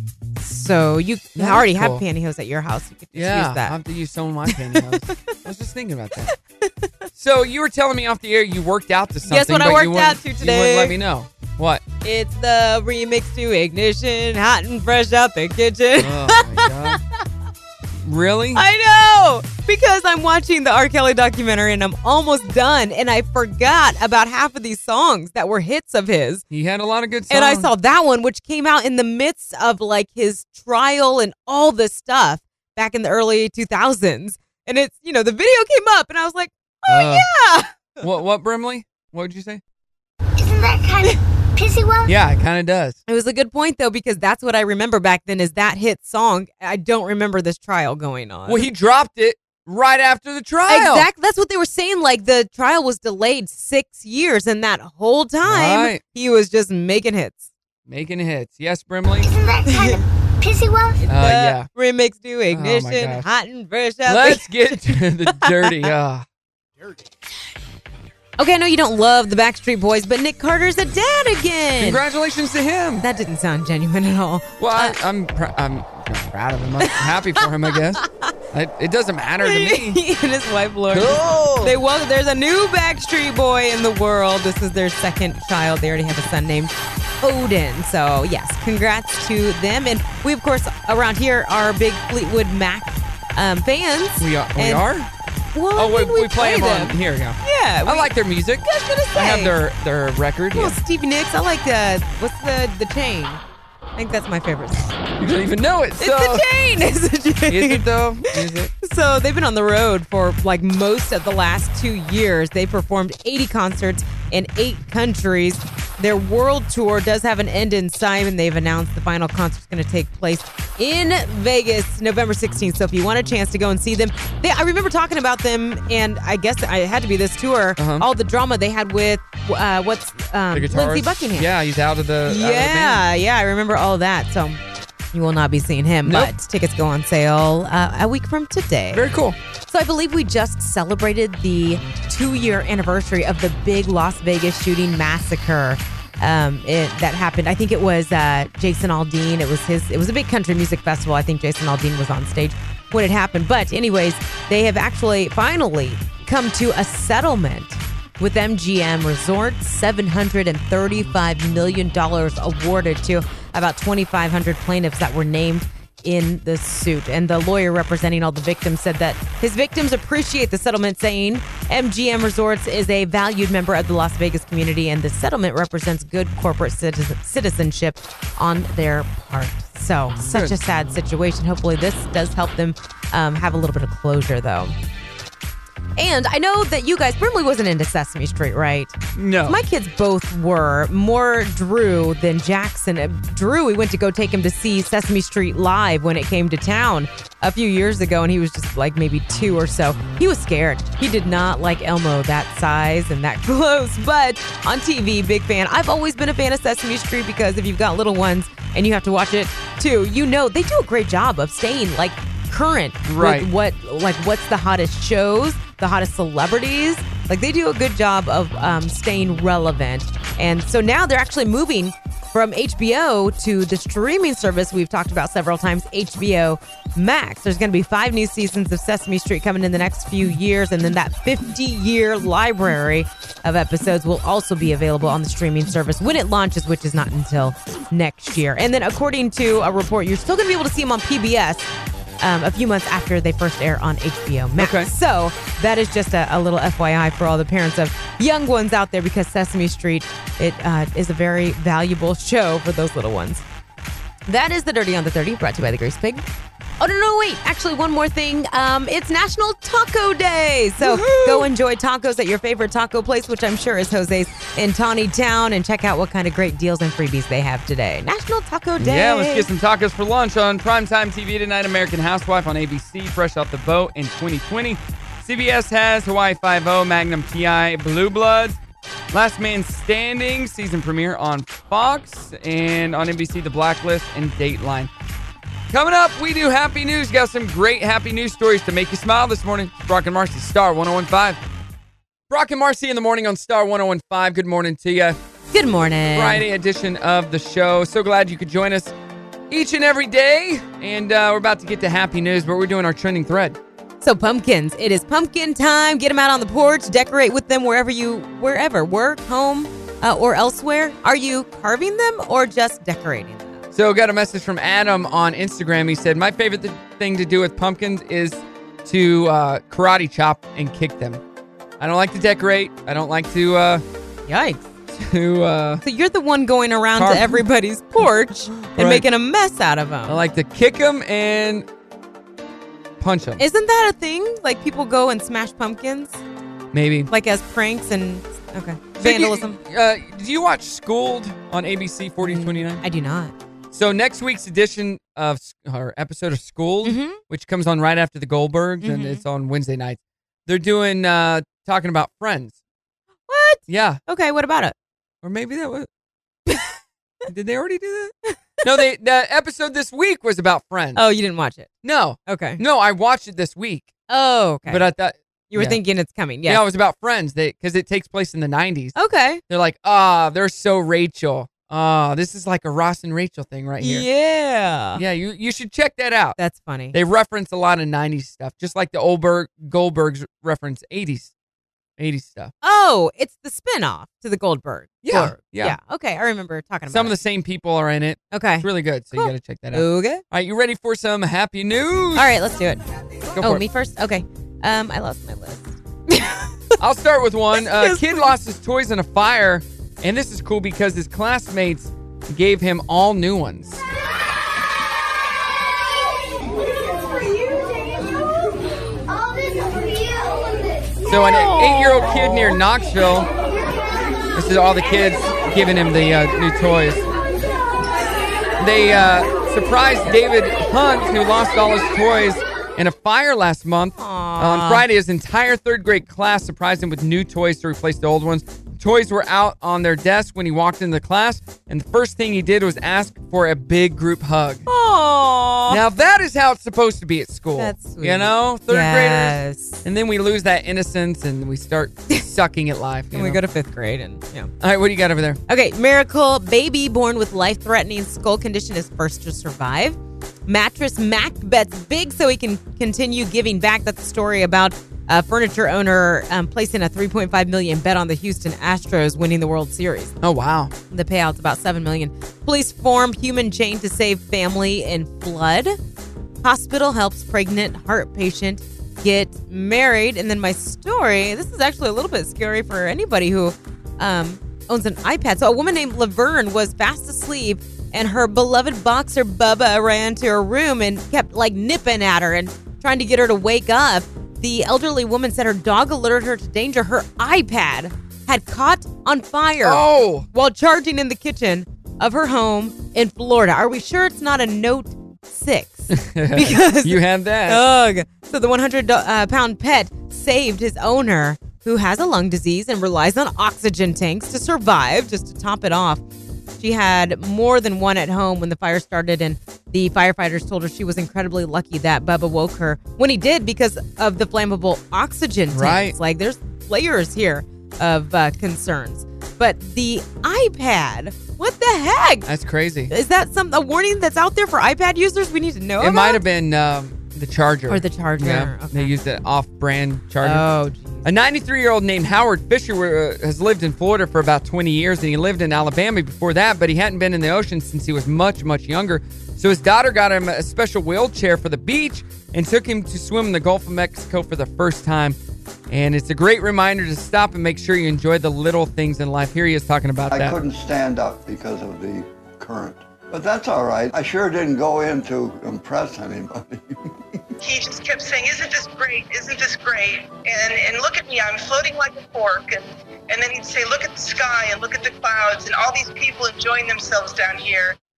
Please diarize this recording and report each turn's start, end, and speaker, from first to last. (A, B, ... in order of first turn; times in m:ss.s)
0:00.4-0:03.8 A
0:01.3-0:02.0 B
0:03.1-0:06.3 B
0:04.5-0:05.3 A
0:06.3-0:06.9 A
0:07.1-0:11.8 B
0:09.2-0:10.9 A
0:12.0-0:17.0 A
0:16.0-0:17.0 B
0:18.0-0:18.6 B
0:18.5-0:26.4 A
0:26.5-0:27.7 B
0:27.3-0:38.0 A
0:36.9-0:37.3 B
0:38.0-0:39.6 B
0:40.4-0:42.1 C
0:42.0-0:43.0 B
0:43.1-0:48.7 A
0:48.5-0:51.1 B
0:50.7-0:57.5 A
0:55.4-0:56.0 B
0:57.9-0:59.3 B
0:59.2-1:01.0 C
0:59.6-1:00.0 A
1:01.0-1:05.9 A
1:01.1-1:01.7 B
1:02.5-1:03.3 B
1:04.0-1:06.2 B
1:08.4-1:12.0 A
1:11.8-1:13.0 B
1:13.0-1:15.0 A
1:14.6-1:20.0 B
1:16.8-1:18.3 A
1:19.4-1:34.8 A
1:20.9-1:21.7 B
1:34.2-1:35.1 B
1:35.5-1:38.1 A
1:35.7-1:40.8 B
1:38.6-1:39.5 A
1:40.5-1:43.4 A
1:44.0-1:45.0 A
1:45.2-1:46.4 B
1:46.0-2:11.5 A
1:47.5-1:48.7 B
2:07.8-2:08.1 B
2:10.5-2:13.0 B
2:12.2-2:14.6 A
2:15.1-2:19.0 A
2:16.0-2:16.3 B
2:18.9-2:19.4 B
2:19.7-3:04.7 A
3:00.2-3:00.6 B
3:06.0-4:01.7 A
3:09.1-3:09.6 B
3:33.0-3:33.5 B
4:02.2-4:13.4 A
4:04.6-4:04.9 B
4:14.3-4:16.3 A
4:16.8-4:29.5 A
4:20.8-4:21.5 B
4:28.8-4:38.6 B
4:39.1-4:44.9 B
4:45.7-4:51.4 B
4:52.3-4:55.2 B
4:55.5-4:56.4 A
4:56.1-4:58.9 B
4:59.5-5:03.6 B
5:04.0-5:13.6 A
5:13.7-5:21.2 B
5:21.8-5:23.8 B
5:24.3-5:24.7 A
5:24.9-5:25.8 B
5:25.8-5:30.2 A
5:27.0-5:27.4 B
5:28.5-5:29.0 B
5:30.0-5:31.7 B
5:33.0-5:33.4 B
5:33.4-5:36.2 A
5:36.7-5:37.1 B
5:37.1-5:39.6 A
5:39.0-5:42.8 B
5:42.2-5:43.3 A
5:43.7-5:52.6 B
5:46.8-5:47.2 A
5:48.8-5:49.2 A
5:53.3-5:54.7 A
5:53.7-5:54.0 B
5:55.2-5:55.9 B
5:57.3-6:01.0 B
6:00.9-6:01.7 A
6:01.8-6:03.9 B
6:02.2-6:02.6 A
6:04.1-6:04.8 A
6:04.7-6:05.8 B
6:05.5-6:06.6 A
6:06.4-6:09.0 B
6:08.9-6:09.4 A
6:09.5-6:14.1 B
6:13.8-6:15.0 A
6:14.9-6:16.4 B
6:16.4-6:17.0 A
6:16.9-6:21.3 B
6:22.0-6:22.5 B
6:22.6-6:27.1 A
6:25.0-6:25.8 B
6:26.9-6:32.4 B
6:28.3-6:30.2 A
6:32.1-6:32.8 A
6:33.3-6:33.6 B
6:33.4-6:36.8 A
6:36.8-6:43.8 B
6:37.5-6:38.2 A
6:47.2-6:48.5 C
6:49.1-6:51.0 C
6:51.0-6:53.3 B
6:51.2-6:52.5 A
6:54.3-6:57.1 B
6:58.6-7:14.6 B
7:04.0-7:04.8 A
7:14.7-7:15.8 A
7:15.7-7:23.4 B
7:17.6-7:19.8 A
7:23.1-7:24.5 A
7:24.6-7:25.4 B
7:25.5-7:40.2 A
7:40.2-7:40.7 B
7:40.9-7:45.8 A
7:46.4-8:26.0 A
8:09.6-8:10.2 B
8:15.9-8:17.6 B
8:26.6-8:42.3 A
8:35.5-8:36.0 B
8:42.2-8:42.9 B
8:42.9-8:46.2 A
8:45.8-8:50.4 B
8:47.7-8:48.9 A
8:50.2-8:51.1 A
8:51.0-9:05.2 B
9:05.7-9:10.4 B
9:10.1-9:17.2 D
9:17.4-9:27.7 E